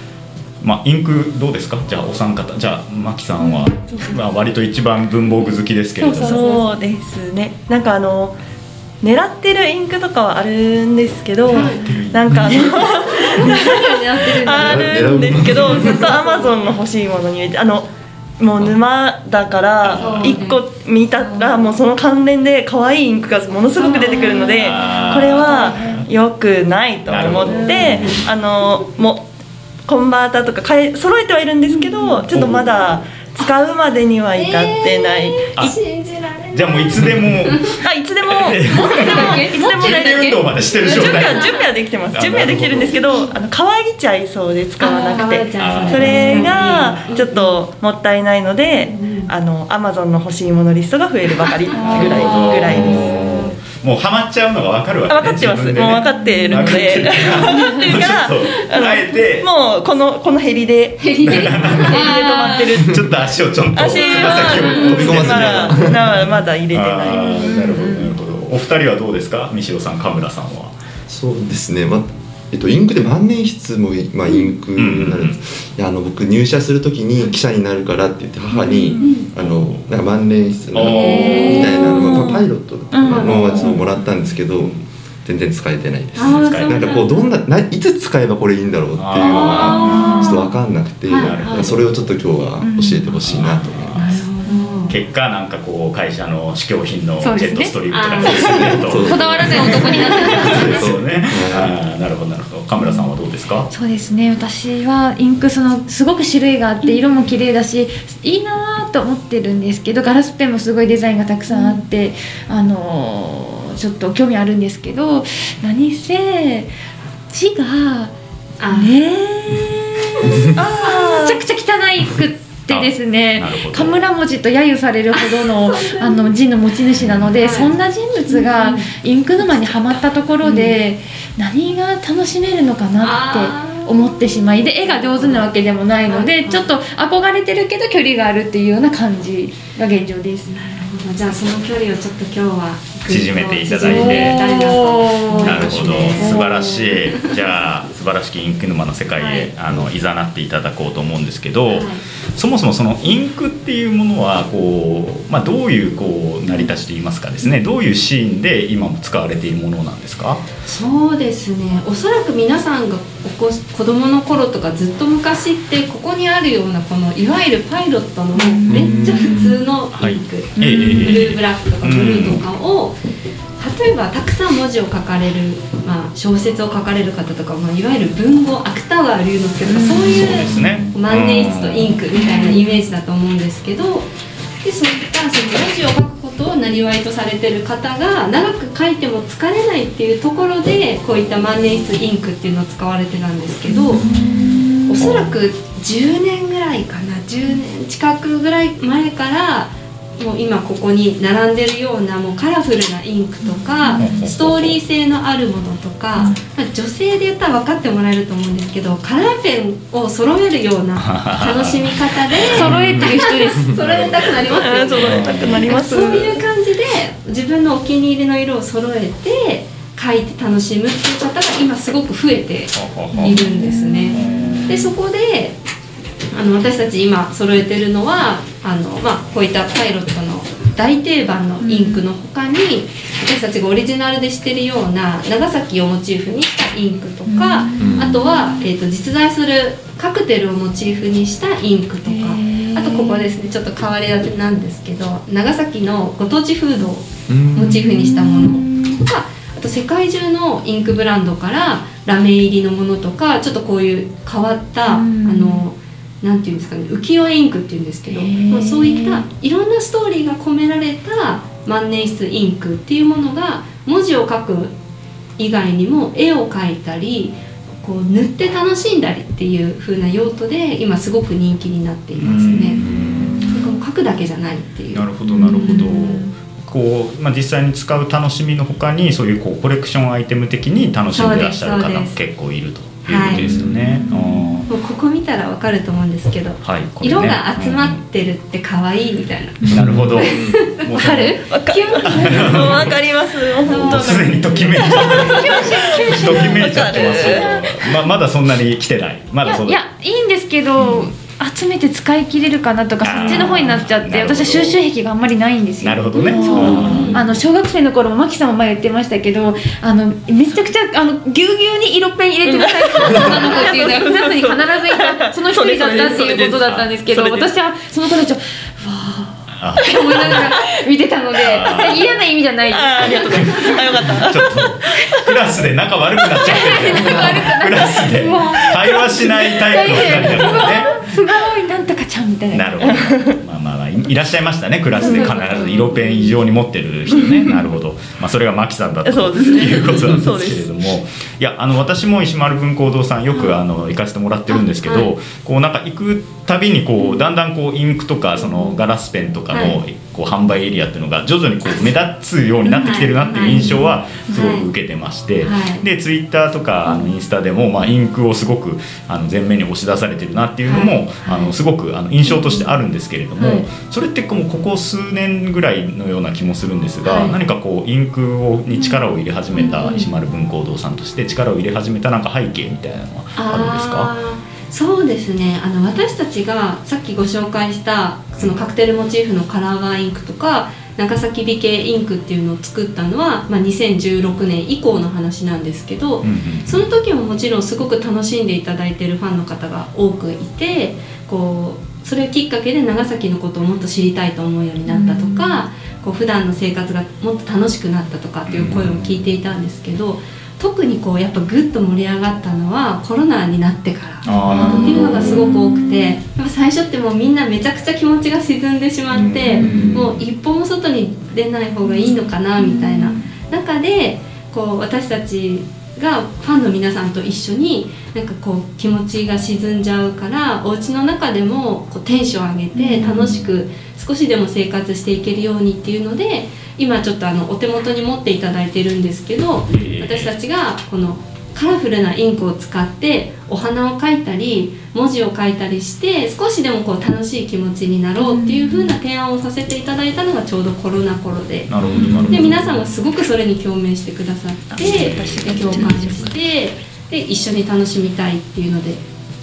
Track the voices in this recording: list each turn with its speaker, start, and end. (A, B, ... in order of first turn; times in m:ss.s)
0:00.6-0:06.5 A
0:06.0-0:06.8 B
0:06.1-0:08.4 C
0:09.0-0:17.9 C
0:11.5-0:11.8 D
0:11.5-0:12.7 A
0:12.8-0:16.7 D
0:14.5-0:16.1 E
0:18.4-0:29.2 C
0:19.8-0:20.4 A
0:20.0-0:20.6 D
0:21.2-0:21.7 D
0:23.8-0:24.6 D
0:24.1-0:24.8 B
0:24.6-0:26.1 A
0:25.3-0:26.0 B
0:27.1-0:28.3 A
0:27.7-0:28.2 D
0:29.9-0:35.7 C
0:31.7-0:32.2 B
0:32.3-0:32.8 A
0:34.4-0:37.8 D
0:36.5-0:41.6 A
0:37.8-0:53.1 C
0:38.6-0:41.6 B
0:42.1-0:42.9 A
0:44.8-0:47.5 D
0:45.6-0:47.2 A
0:48.8-0:49.3 D
0:51.7-0:53.6 D
0:51.8-0:52.3 B
0:51.8-0:59.5 A
0:55.1-1:03.1 C
0:56.1-0:56.7 B
0:57.5-0:57.8 B
1:01.0-1:02.6 D
1:01.2-1:02.0 A
1:02.0-1:02.6 B
1:02.8-1:10.8 A
1:03.8-1:07.9 C
1:04.1-1:05.0 B
1:04.9-1:06.2 E
1:07.3-1:08.0 B
1:11.1-1:34.0 E
1:14.8-1:15.4 A
1:18.6-1:19.2 B
1:19.0-1:19.3 D
1:20.7-1:22.0 A
1:20.8-1:21.8 D
1:21.1-1:23.9 B
1:23.1-1:23.8 D
1:24.6-1:24.8 A
1:26.1-1:27.0 A
1:26.2-1:27.4 D
1:29.0-1:30.2 A
1:29.2-1:30.5 B
1:29.7-1:30.1 D
1:31.1-1:31.4 D
1:31.1-1:32.1 A
1:31.4-1:31.7 B
1:32.6-1:33.2 B
1:33.2-1:34.2 A
1:33.9-1:35.0 D
1:34.0-1:35.0 B
1:34.9-1:43.7 A
1:37.2-1:37.7 B
1:37.9-1:39.0 D
1:38.2-1:41.8 E
1:39.0-1:40.9 B
1:39.8-1:40.6 D
1:42.8-1:43.1 B
1:43.7-1:56.7 B
1:57.3-1:58.1 B
1:58.6-1:59.0 D
1:58.7-2:20.6 B
2:00.5-2:01.4 C
2:02.7-2:04.0 A
2:05.1-2:06.2 D
2:07.4-2:07.7 D
2:08.3-2:08.9 D
2:09.4-2:10.8 D
2:13.0-2:15.5 D
2:16.1-2:16.7 D
2:20.5-2:26.4 D
2:23.1-2:24.6 A
2:23.7-2:27.0 B
2:25.4-2:40.5 A
2:29.1-2:29.5 D
2:31.7-2:32.0 D
2:40.6-2:53.0 D
2:48.3-2:49.6 B
2:48.7-2:49.1 A
2:49.9-2:52.4 A
2:50.6-2:51.3 B
2:53.6-3:04.1 D
2:59.6-3:00.9 B
3:00.0-3:02.0 A
3:02.1-3:02.7 B
3:04.6-3:14.0 D
3:13.7-3:15.1 B
3:14.9-3:45.6 D
3:15.0-3:15.3 A
3:23.4-3:24.2 B
3:23.9-3:24.8 A
3:31.0-3:33.2 A
3:32.5-3:33.8 B
3:33.7-3:34.1 E
3:33.8-3:34.4 A
3:34.4-3:36.4 C
3:34.9-3:35.7 A
3:42.7-3:43.4 A
3:43.1-3:44.9 B
3:44.1-3:44.9 A
3:46.3-4:24.7 D
3:51.6-3:52.0 B
3:57.3-3:58.7 B
3:57.8-3:58.2 E
4:02.1-4:03.3 B
4:07.3-4:07.9 E
4:07.7-4:09.0 B
4:14.8-4:15.6 B
4:18.1-4:19.2 B
4:25.4-4:32.8 D
4:32.2-4:33.4 A
4:33.2-4:33.8 B
4:33.5-4:35.9 D
4:34.9-4:44.7 A
4:35.2-4:36.3 B
4:41.1-4:42.2 D
4:43.1-4:43.6 D
4:43.3-4:43.8 E
4:43.7-4:44.7 B
4:44.7-4:52.9 D
4:46.6-4:48.0 A
4:49.7-4:50.6 E
4:49.7-4:53.0 A
4:51.5-4:57.5 C
4:53.6-4:59.8 A
4:53.7-4:54.3 D
4:55.1-4:57.7 B
4:59.4-5:23.8 B
5:03.0-5:04.8 A
5:05.8-5:07.3 A
5:06.2-5:07.1 C
5:06.8-5:07.2 D
5:12.4-5:17.5 C
5:16.6-5:16.9 A
5:19.5-5:20.4 A
5:20.0-5:20.5 D
5:21.4-5:22.2 A
5:22.7-5:25.3 C
5:23.1-5:31.0 A
5:26.4-5:33.1 B
5:32.5-6:14.1 A
5:32.9-5:33.3 C
5:35.0-5:35.8 D
5:35.0-5:35.4 B
5:39.0-5:40.7 C
5:44.8-5:45.1 D
5:49.5-5:49.8 D
5:52.7-5:54.7 D
5:53.6-5:53.8 B
5:55.4-5:55.8 D
6:00.7-6:01.5 D
6:02.2-6:02.7 D
6:03.4-6:03.6 D
6:07.0-6:07.4 D
6:09.6-6:10.1 D
6:13.4-7:21.7 D
6:26.2-6:26.9 A
6:34.9-6:35.6 B
6:38.5-6:39.1 A
6:44.2-6:45.5 A
6:44.2-6:46.2 B
6:49.2-6:50.2 E
6:49.3-6:49.8 B
6:49.6-6:50.1 A
6:51.9-6:53.3 B
7:02.7-7:03.4 B
7:09.7-7:10.3 A
7:18.2-7:19.0 B
7:21.7-7:22.8 A
7:21.8-7:22.6 E
7:22.3-7:29.0 D
7:24.7-7:26.3 C
7:24.8-7:26.1 A